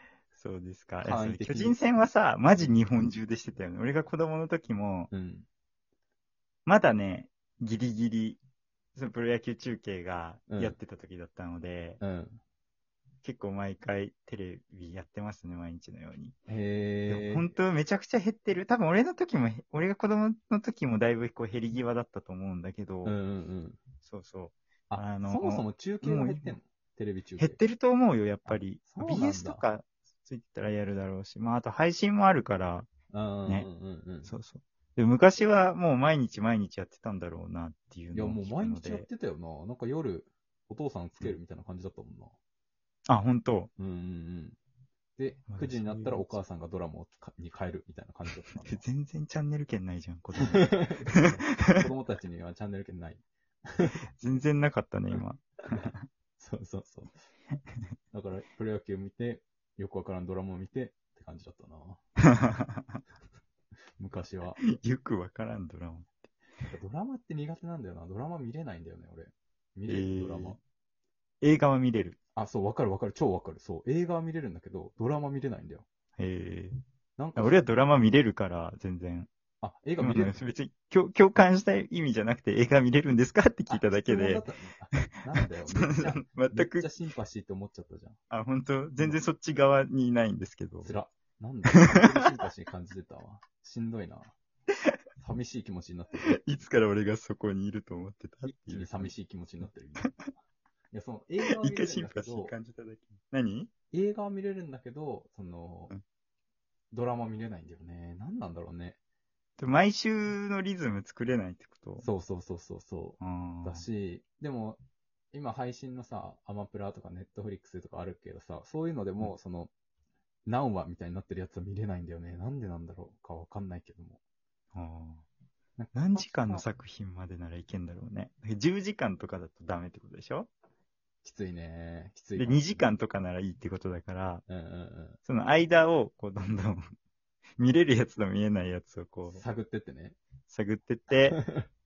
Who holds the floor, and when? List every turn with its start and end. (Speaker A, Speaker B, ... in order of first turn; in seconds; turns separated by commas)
Speaker A: 0.3-5.1, Speaker B: 1.0-2.0, Speaker B: 5.1-5.5, Speaker A: 6.7-8.4, Speaker A: 8.9-12.0, Speaker B: 10.5-10.8, Speaker B: 12.0-12.4, Speaker A: 13.2-16.4, Speaker B: 16.5-17.5, Speaker A: 17.1-23.1, Speaker B: 23.0-23.8, Speaker A: 24.0-26.6, Speaker B: 24.9-27.6, Speaker A: 27.4-32.9, Speaker B: 28.4-29.6, Speaker B: 33.1-34.3, Speaker A: 34.2-39.0, Speaker B: 38.1-42.4, Speaker A: 43.1-43.7, Speaker B: 43.8-44.6, Speaker B: 45.2-48.8, Speaker A: 45.5-46.4, Speaker A: 48.6-51.8, Speaker B: 50.5-53.2, Speaker A: 54.2-56.0, Speaker B: 56.4-57.1, Speaker B: 58.1-62.0, Speaker A: 62.3-63.0, Speaker B: 64.0-64.6, Speaker A: 64.6-66.1, Speaker B: 66.7-70.6, Speaker A: 69.9-70.6, Speaker A: 71.4-72.2, Speaker B: 72.3-75.8, Speaker A: 76.2-76.8, Speaker B: 77.2-77.7, Speaker A: 77.3-79.3, Speaker B: 79.6-80.3, Speaker A: 80.0-85.0, Speaker B: 83.7-88.2, Speaker A: 85.7-86.9, Speaker A: 88.3-90.9, Speaker B: 90.8-94.3, Speaker B: 95.2-96.4, Speaker A: 96.2-99.1, Speaker B: 98.4-100.3, Speaker B: 100.9-102.5, Speaker A: 101.4-103.7, Speaker B: 103.9-105.9, Speaker B: 106.9-109.0, Speaker A: 109.6-112.1, Speaker B: 112.0-114.8, Speaker A: 113.2-113.8, Speaker B: 115.3-119.7, Speaker B: 120.5-124.2, Speaker A: 124.7-125.2, Speaker B: 125.8-126.7, Speaker A: 125.9-130.5, Speaker B: 131.2-132.8, Speaker A: 132.4-134.4, Speaker B: 134.5-135.2, Speaker A: 135.2-136.9, Speaker A: 137.6-139.4, Speaker B: 139.3-140.2, Speaker A: 140.5-141.4, Speaker B: 141.2-141.7